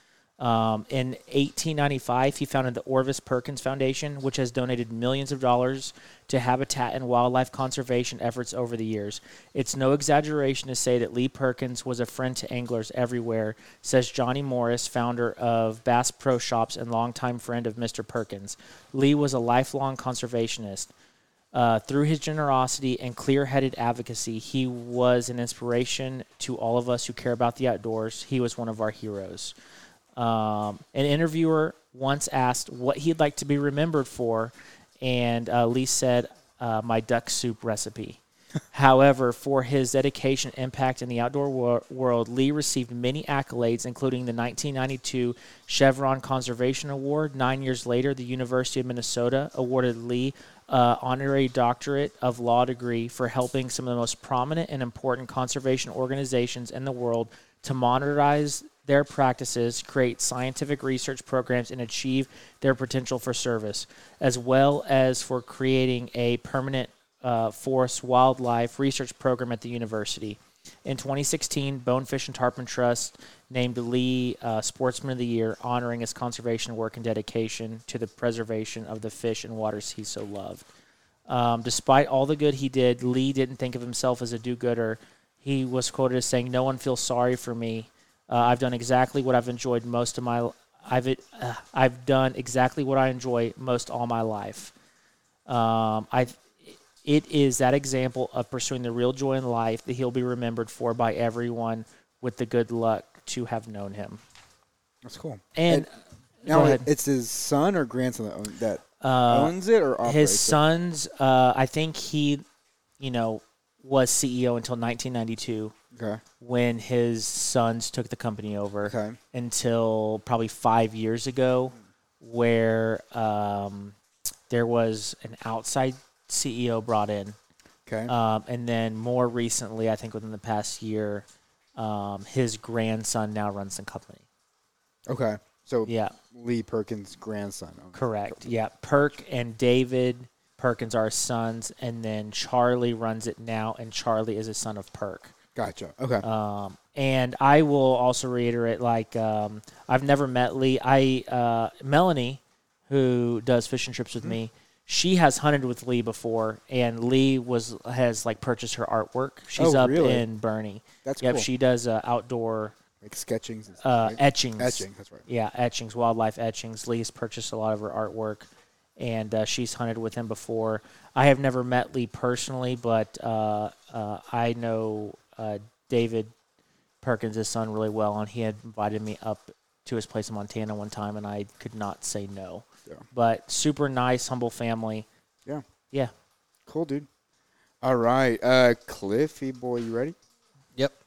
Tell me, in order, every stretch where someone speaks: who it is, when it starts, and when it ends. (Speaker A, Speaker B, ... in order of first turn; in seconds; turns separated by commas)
Speaker A: 0.4-20.9, Speaker A: 21.5-29.5, Speaker A: 30.1-38.2, Speaker A: 38.7-80.6, Speaker A: 81.3-94.7, Speaker A: 95.5-104.2, Speaker B: 105.0-105.9, Speaker A: 105.5-105.9, Speaker A: 106.4-106.9, Speaker B: 106.4-110.6, Speaker A: 109.0-112.4, Speaker A: 113.0-115.7, Speaker B: 115.9-116.2, Speaker A: 116.4-124.0, Speaker B: 118.9-119.2, Speaker A: 124.5-127.3, Speaker B: 127.8-128.1, Speaker A: 128.1-134.2, Speaker B: 135.1-138.5, Speaker A: 135.9-136.1, Speaker A: 137.9-145.3, Speaker B: 145.6-146.2, Speaker A: 146.2-162.7, Speaker B: 159.6-160.2, Speaker B: 161.0-161.5, Speaker B: 163.0-165.2, Speaker A: 163.8-168.5, Speaker A: 169.0-176.3, Speaker A: 177.0-185.1, Speaker B: 186.7-187.1, Speaker B: 187.8-190.1